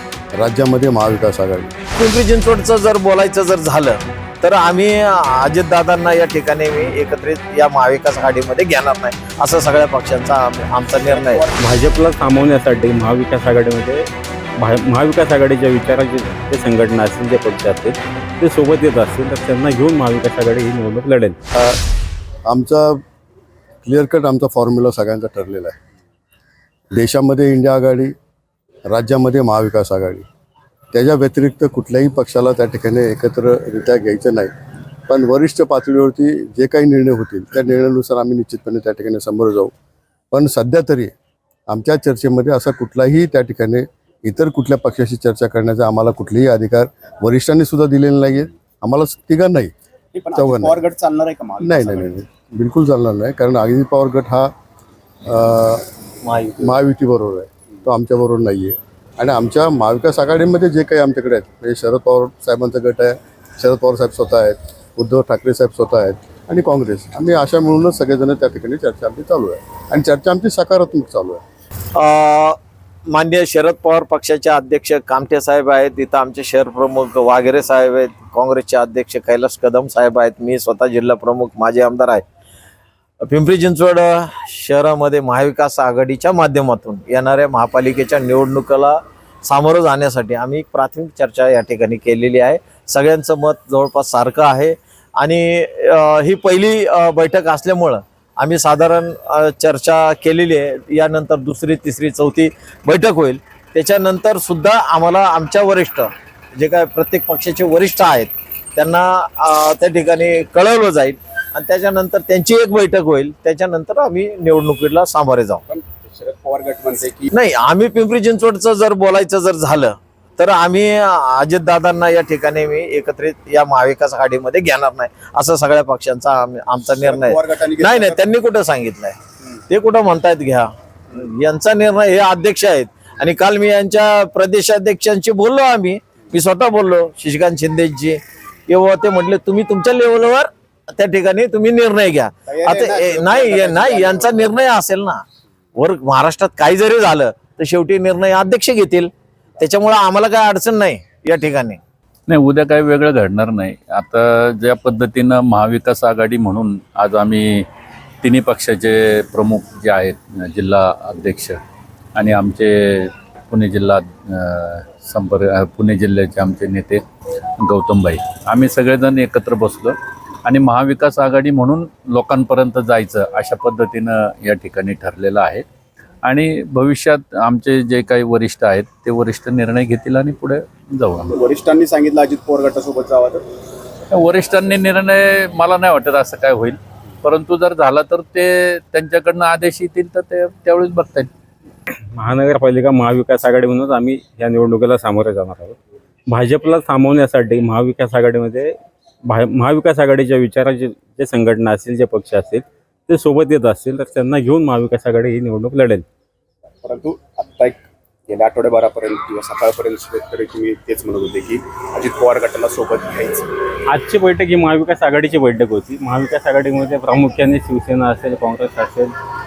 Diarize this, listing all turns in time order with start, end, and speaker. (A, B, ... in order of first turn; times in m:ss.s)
0:00.4-0:01.7 A
0:02.0-0:11.5 B
0:11.0-0:11.6 C
0:11.6-0:14.1 D
0:14.6-0:21.4 D
0:22.5-0:23.0 A
0:23.8-0:25.8 A
0:26.9-0:28.1 A
0:28.9-0:30.3 A
0:30.9-0:34.5 A
0:35.1-0:39.7 A
0:40.3-0:41.1 A
0:41.7-0:49.7 A
0:50.1-0:52.2 C
0:50.3-0:50.8 A
0:51.6-0:54.5 A
0:55.2-0:55.8 A
0:56.6-1:11.4 A
1:12.0-1:12.6 B
1:13.1-1:22.2 B
1:23.2-1:55.6 B
1:55.7-1:57.3 C
1:57.3-2:09.2 B
2:06.9-2:08.2 C
2:09.7-2:18.2 B
2:18.7-2:25.2 B
2:22.5-2:24.6 C
2:25.8-2:31.8 B
2:32.3-2:37.7 E
2:38.2-2:41.6 E
2:42.2-2:47.0 E
2:47.6-2:55.6 E
2:56.2-3:01.4 E
3:01.3-3:03.5 C
3:04.1-3:11.3 E
3:12.1-3:15.8 D
3:16.3-3:26.1 D
3:26.8-3:33.5 C
3:33.9-3:39.1 D